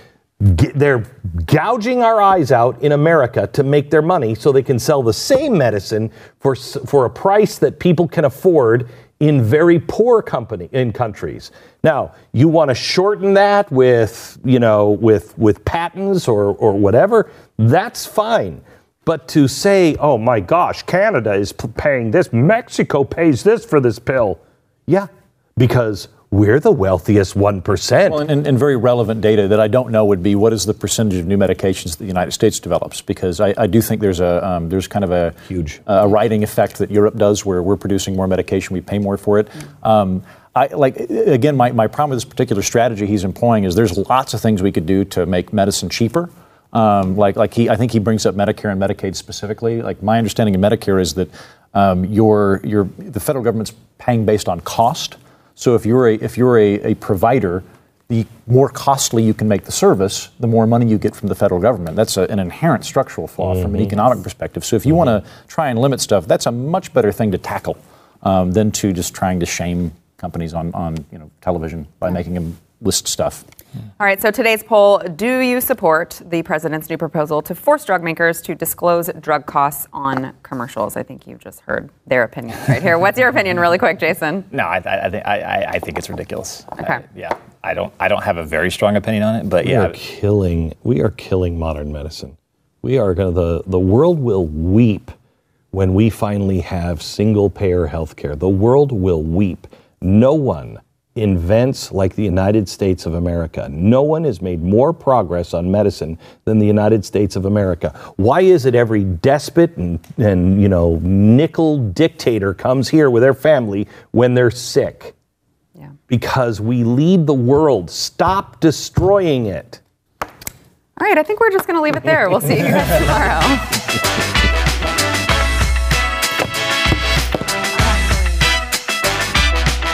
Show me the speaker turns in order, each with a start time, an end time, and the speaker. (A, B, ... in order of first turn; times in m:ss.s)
0:00.4-0:28.2 A
0:28.1-1:13.4 B
0:35.5-0:35.8 A
1:03.5-1:03.8 A
1:14.0-1:24.5 C
1:24.5-1:30.0 D
1:29.6-1:35.1 A
1:35.7-1:55.1 A
1:56.1-1:59.8 A
2:01.0-2:03.8 C